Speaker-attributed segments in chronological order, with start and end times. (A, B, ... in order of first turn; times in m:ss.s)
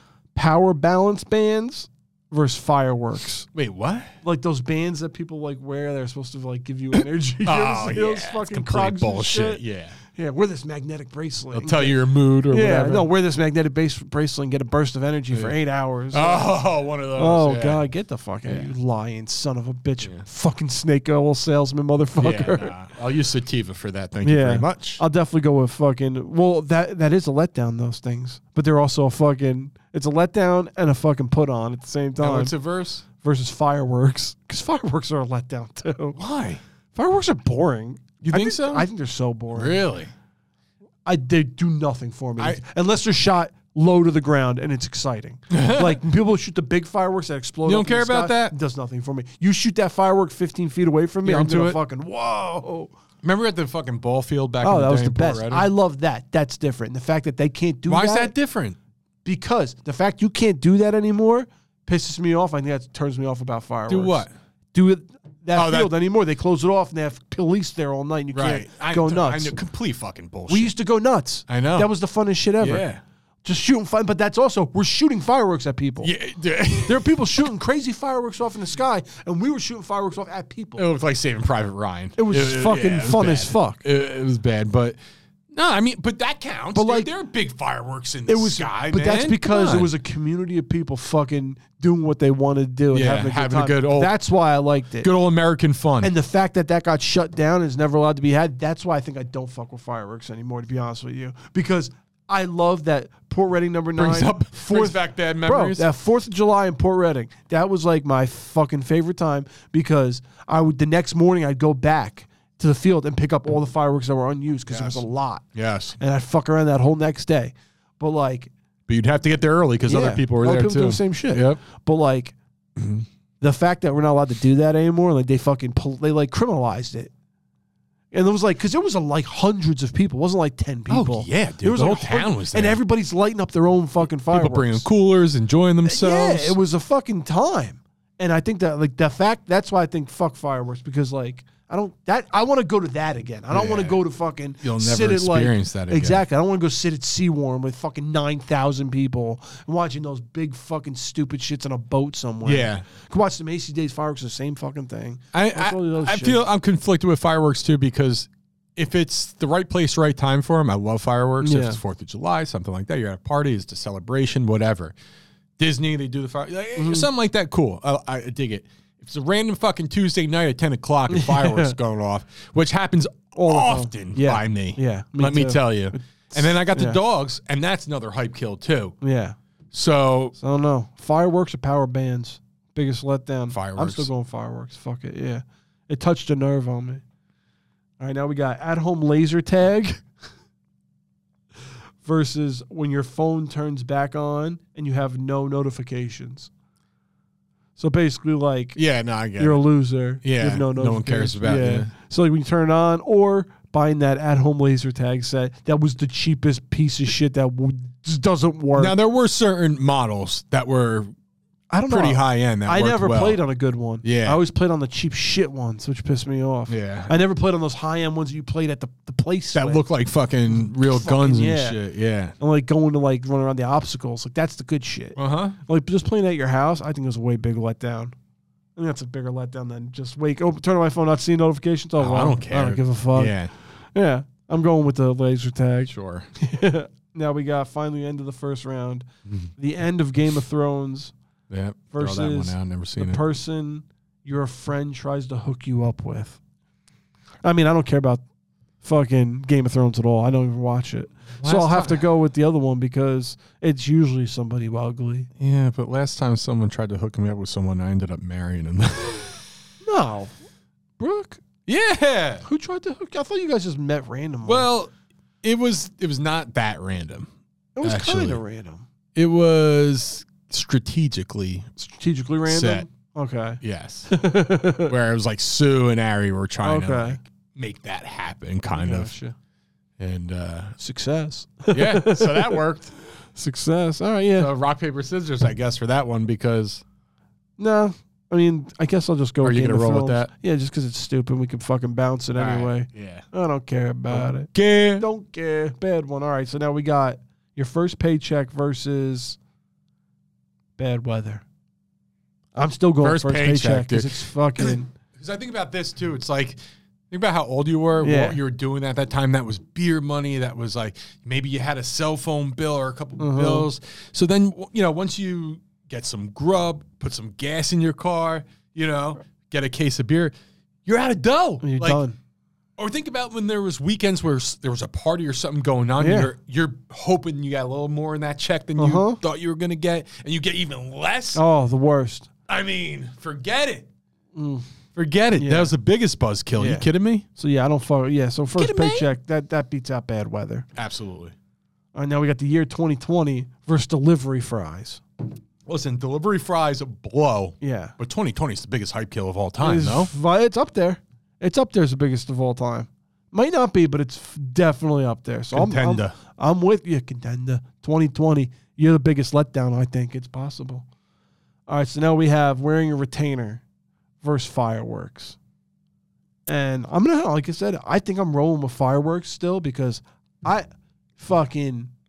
0:00.4-0:03.5 A
0:03.5-0:04.1 B
0:04.2-0:16.6 A
0:07.4-0:10.0 B
0:11.5-0:13.1 B
0:16.1-0:17.8 B
0:17.1-0:22.7 A
0:18.4-0:18.7 B
0:22.2-0:25.0 B
0:24.2-0:32.5 A
0:32.2-0:33.0 B
0:33.2-0:36.2 A
0:36.2-0:36.6 B
0:36.9-0:39.8 A
0:38.2-0:38.9 B
0:39.5-0:40.1 B
0:41.1-0:52.9 A
0:45.5-0:46.0 B
0:47.7-0:48.6 B
0:51.2-0:51.8 B
0:53.2-0:55.7 B
0:54.6-0:58.3 A
0:57.9-0:58.8 B
0:59.2-1:09.6 A
1:03.9-1:04.3 B
1:05.5-1:05.9 B
1:08.3-1:10.7 B
1:10.5-1:12.9 A
1:11.5-1:11.9 B
1:12.6-1:13.0 B
1:13.4-1:16.1 A
1:16.0-1:17.2 B
1:16.8-1:20.9 A
1:20.8-1:25.0 B
1:22.2-1:23.8 A
1:25.5-1:29.9 B
1:26.7-1:27.1 A
1:28.3-1:35.1 A
1:32.9-1:34.1 B
1:35.0-1:36.1 B
1:36.0-1:55.4 A
1:44.0-1:45.9 B
1:54.7-1:56.0 B
1:56.0-1:58.5 A
1:58.9-2:01.6 B
1:59.9-2:02.4 A
2:02.8-2:03.1 B
2:03.4-2:07.1 A
2:08.1-2:14.9 A
2:10.9-2:12.8 B
2:14.0-2:16.6 B
2:15.8-2:36.4 A
2:23.5-2:24.0 B
2:24.6-2:26.2 B
2:32.4-2:32.8 B
2:35.3-2:45.0 B
2:41.4-2:41.8 A
2:45.6-2:59.0 B
2:46.8-2:47.1 A
2:51.1-2:51.7 A
2:53.4-2:57.0 A
2:59.0-2:59.4 A
2:59.7-3:00.4 B
3:00.4-3:07.0 A
3:03.5-3:04.1 B
3:08.0-3:10.0 A
3:12.0-3:16.5 A
3:17.8-3:18.8 A
3:18.7-3:19.6 B
3:19.4-3:29.0 A
3:20.2-3:21.9 B
3:28.8-3:31.1 B
3:31.7-3:39.9 A
3:31.9-3:33.4 B
3:34.0-3:34.4 B
3:36.7-3:37.1 B
3:39.5-3:42.3 B
3:40.5-3:41.8 A
3:42.4-3:48.1 A
3:45.2-3:45.6 B
3:48.8-3:53.4 A
3:52.0-3:53.5 B
3:53.9-4:01.1 A
3:55.9-3:56.3 B
4:01.5-4:03.2 B
4:01.9-4:06.4 A
4:07.4-4:08.2 A
4:08.8-4:15.3 A
4:11.4-4:12.1 B
4:15.4-4:19.5 B
4:19.8-4:20.3 A
4:21.0-4:21.4 A
4:21.7-4:22.4 B
4:22.4-4:24.7 A
4:24.4-4:24.9 B
4:25.4-4:27.3 B
4:27.8-4:28.8 A
4:27.8-4:28.4 B
4:29.1-4:31.7 B
4:31.8-4:34.9 A
4:32.5-4:32.9 B
4:33.6-4:34.1 B
4:34.8-4:39.1 B
4:36.6-4:37.2 A
4:38.7-4:39.4 A
4:40.0-4:40.7 B
4:40.8-4:42.6 A
4:41.7-4:42.9 B
4:43.2-4:44.5 A
4:44.4-4:46.8 B
4:47.6-4:59.4 A
4:49.4-4:50.3 B
4:52.4-4:53.3 B
4:54.1-4:55.1 B
5:00.8-5:01.4 A
5:02.6-5:04.9 A
5:03.0-5:06.6 B
5:07.1-5:20.3 B
5:08.0-5:08.4 A
5:13.2-5:13.7 A
5:20.8-5:22.0 B
5:21.6-5:22.2 A
5:22.8-5:31.4 B
5:26.0-5:26.3 A
5:28.8-5:29.2 A
5:31.3-5:32.3 A
5:32.5-5:33.9 B
5:34.4-5:34.7 A
5:35.0-5:37.3 B
5:35.4-5:35.7 A
5:36.6-5:40.7 A
5:38.6-5:39.1 B
5:40.7-5:41.4 B
5:41.9-5:45.0 A
5:45.7-5:50.1 B
5:47.6-5:48.0 A
5:49.6-6:00.8 A
5:55.5-5:56.1 B
6:01.7-6:03.6 A
6:04.2-6:05.4 A
6:06.4-6:10.7 A
6:11.2-6:11.9 A